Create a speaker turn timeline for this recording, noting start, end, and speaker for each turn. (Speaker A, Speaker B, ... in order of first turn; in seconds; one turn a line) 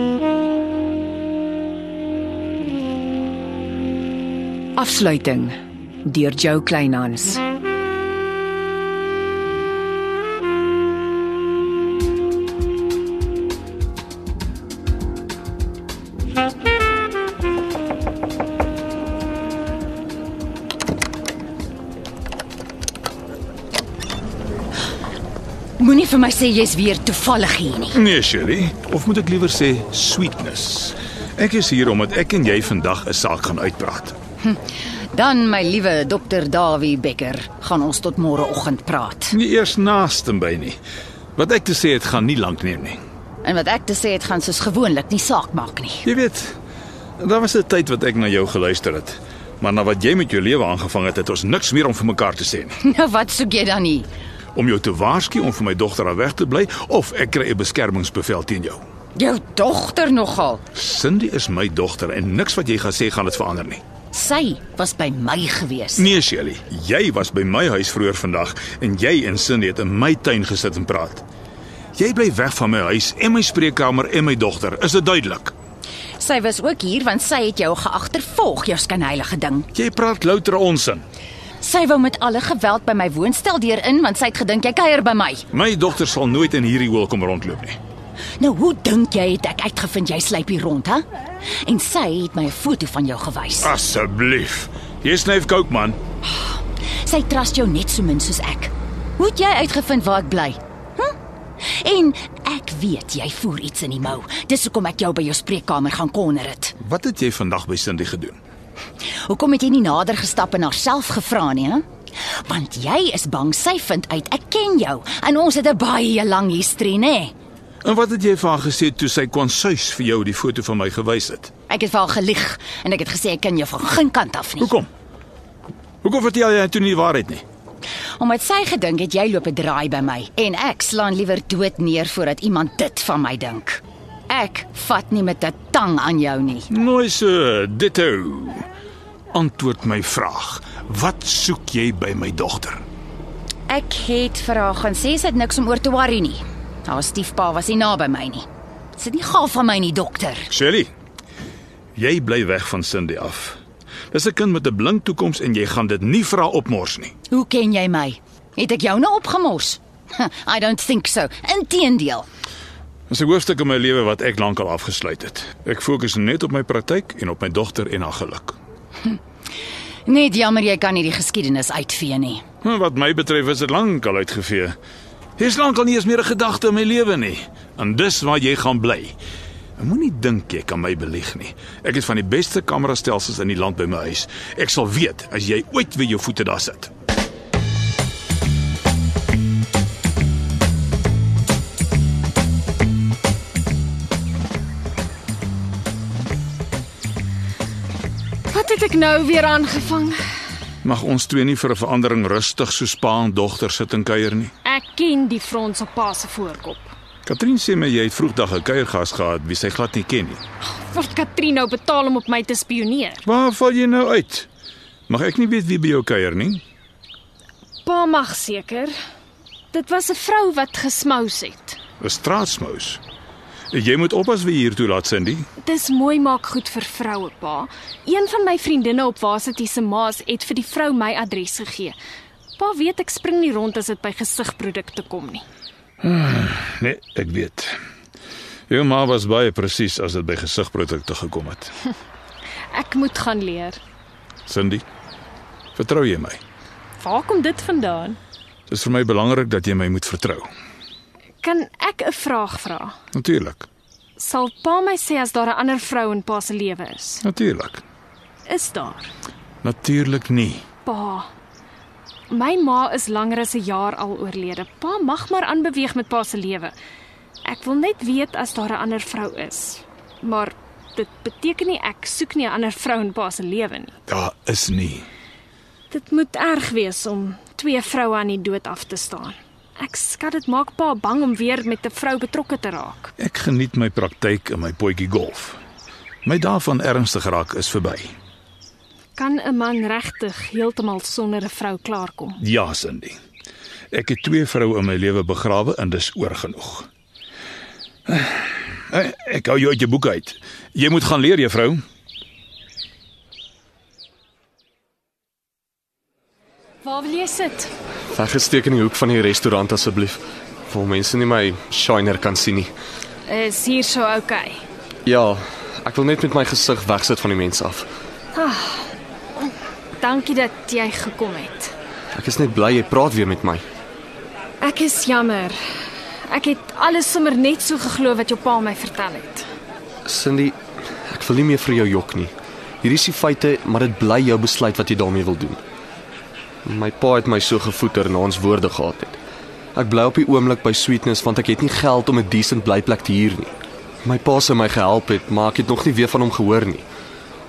Speaker A: 4.8-7.4
Speaker B: 25.8-28.0
Speaker C: 27.9-34.2
Speaker B: 35.1-39.4
Speaker C: 39.3-40.8
Speaker C: 41.4-43.0
Speaker B: 43.4-46.0
Speaker C: 46.0-46.5
Speaker C: 47.2-52.8
Speaker B: 52.8-54.1
Speaker C: 54.5-58.8
Speaker B: 59.1-60.6
Speaker C: 60.7-63.8
Speaker B: 64.1-66.1
Speaker C: 66.0-71.2
Speaker C: 72.0-75.5
Speaker B: 76.2-79.7
Speaker C: 79.7-81.0
Speaker B: 81.6-85.4
Speaker C: 85.5-87.8
Speaker B: 88.4-91.0
Speaker B: 91.6-93.7
Speaker C: 93.6-96.0
Speaker B: 96.3-106.8
Speaker C: 106.8-108.4
Speaker B: 109.2-117.3
Speaker C: 117.8-121.5
Speaker B: 121.7-124.7
Speaker C: 124.6-124.9
Speaker C: 126.0-127.4
Speaker B: 128.2-136.7
Speaker C: 136.7-138.7
Speaker C: 139.3-142.8
Speaker B: 143.7-150.5
Speaker C: 150.5-150.9
Speaker C: 151.9-153.6
Speaker C: 154.1-157.1
Speaker B: 157.3-162.2
Speaker C: 163.1-168.6
Speaker B: 170.1-172.4
Speaker C: 172.6-174.8
Speaker C: 175.4-179.2
Speaker C: 179.8-186.9
Speaker D: 198.5-200.2
Speaker C: 200.8-204.5
Speaker D: 204.6-206.9
Speaker C: 207.2-210.4
Speaker D: 210.6-213.2
Speaker C: 213.2-214.5
Speaker C: 215.1-216.6
Speaker D: 217.8-218.9
Speaker D: 219.7-221.8
Speaker C: 222.0-223.0
Speaker C: 223.7-225.5
Speaker D: 225.6-231.9
Speaker D: 232.6-235.4
Speaker C: 236.0-237.8
Speaker C: 238.7-241.7
Speaker D: 242.7-243.8
Speaker C: 244.4-244.8
Speaker C: 245.7-246.4
Speaker D: 247.0-248.2
Speaker C: 248.7-250.5
Speaker D: 251.4-252.9
Speaker C: 253.1-253.7
Speaker D: 254.2-257.2
Speaker C: 257.2-257.8
Speaker D: 258.5-259.1
Speaker C: 259.6-260.6
Speaker D: 260.8-261.3
Speaker D: 262.3-266.7
Speaker D: 267.4-274.0
Speaker C: 274.1-275.1
Speaker D: 275.9-283.1
Speaker C: 283.2-285.6
Speaker C: 286.2-288.1
Speaker D: 289.1-292.4
Speaker C: 292.4-293.2
Speaker C: 293.9-296.9
Speaker C: 298.1-301.8
Speaker D: 306.8-307.7
Speaker E: 308.1-312.7
Speaker D: 313.3-314.6
Speaker E: 315.0-317.9
Speaker D: 318.3-321.7
Speaker E: 322.1-323.6
Speaker D: 324.6-325.6
Speaker D: 326.3-329.5
Speaker E: 330.0-335.6
Speaker E: 336.6-339.2
Speaker E: 339.7-346.9